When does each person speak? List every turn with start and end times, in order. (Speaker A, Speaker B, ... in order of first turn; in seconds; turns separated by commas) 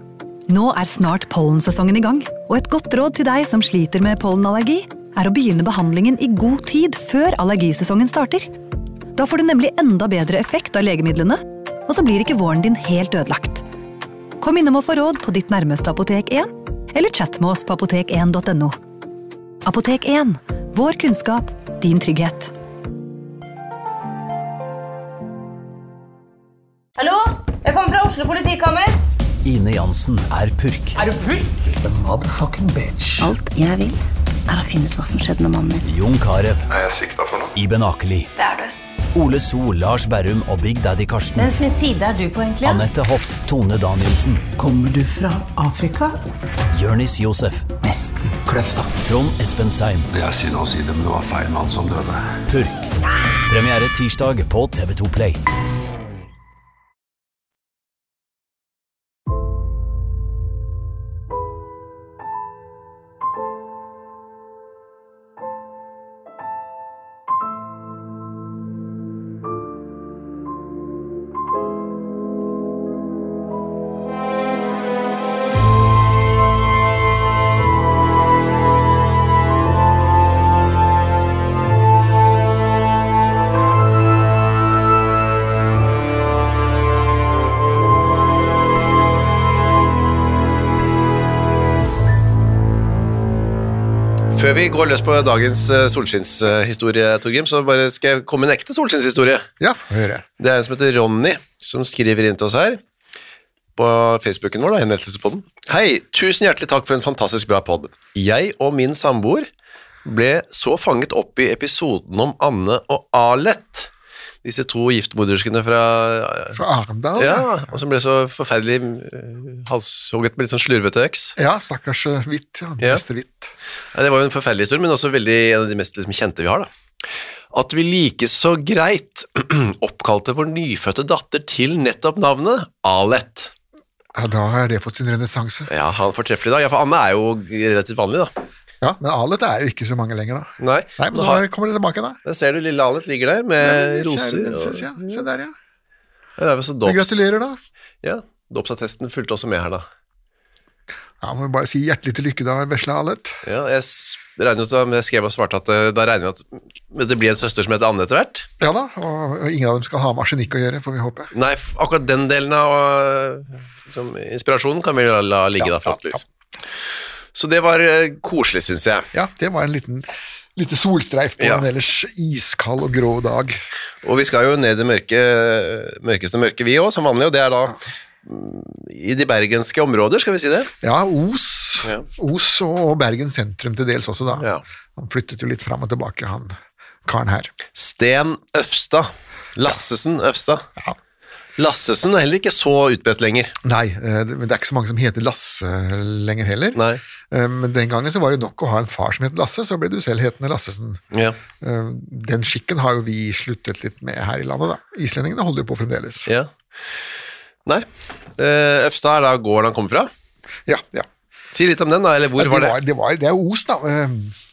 Speaker A: 0.5-8.5, Speaker A: 9.1-13.6, Speaker A: 14.4-18.8, Speaker A: 19.6-22.5, Speaker B: 27.0-28.9, Speaker C: 29.4-31.0, Speaker D: 31.8-33.3, Speaker E: 33.2-35.8, Speaker C: 35.8-36.6, Speaker F: 36.7-37.5, Speaker C: 37.5-38.3, Speaker B: 38.4-38.7, Speaker C: 39.1-41.6, Speaker B: 41.4-42.9, Speaker C: 42.6-44.4, Speaker D: 44.6-46.2, Speaker C: 46.7-47.7, Speaker D: 47.8-48.9, Speaker C: 48.9-50.1, Speaker F: 50.1-52.3, Speaker C: 52.5-52.9, Speaker C: 53.5-55.4, Speaker G: 94.3-99.5, Speaker H: 99.6-100.2, Speaker G: 100.4-102.8, Speaker G: 103.8-109.5, Speaker G: 110.0-113.9, Speaker G: 114.4-116.6, Speaker H: 116.5-117.6, Speaker G: 117.2-121.3, Speaker H: 121.3-123.5, Speaker G: 123.9-126.7, Speaker G: 127.5-133.5, Speaker H: 134.1-135.7, Speaker G: 135.7-138.3, Speaker H: 138.8-142.2, Speaker G: 140.6-141.4, Speaker G: 142.2-145.2, Speaker H: 143.6-145.5, Speaker G: 146.4-147.2, Speaker H: 146.8-147.6, Speaker G: 148.0-149.8, Speaker H: 151.2-153.4, Speaker G: 153.4-158.5, Speaker H: 158.6-161.3, Speaker G: 161.3-166.2, Speaker H: 165.6-166.2, Speaker G: 167.3-169.1, Speaker H: 169.1-173.6, Speaker G: 171.4-171.6, Speaker G: 174.0-180.7, Speaker H: 180.8-187.5, Speaker G: 184.4-184.6, Speaker G: 187.7-190.6, Speaker G: 191.6-193.5, Speaker H: 193.6-201.0, Speaker G: 196.8-197.0, Speaker G: 201.1-201.4, Speaker H: 201.6-206.3, Speaker G: 208.4-210.1, Speaker H: 210.7-211.1, Speaker G: 211.5-212.8, Speaker H: 212.3-214.3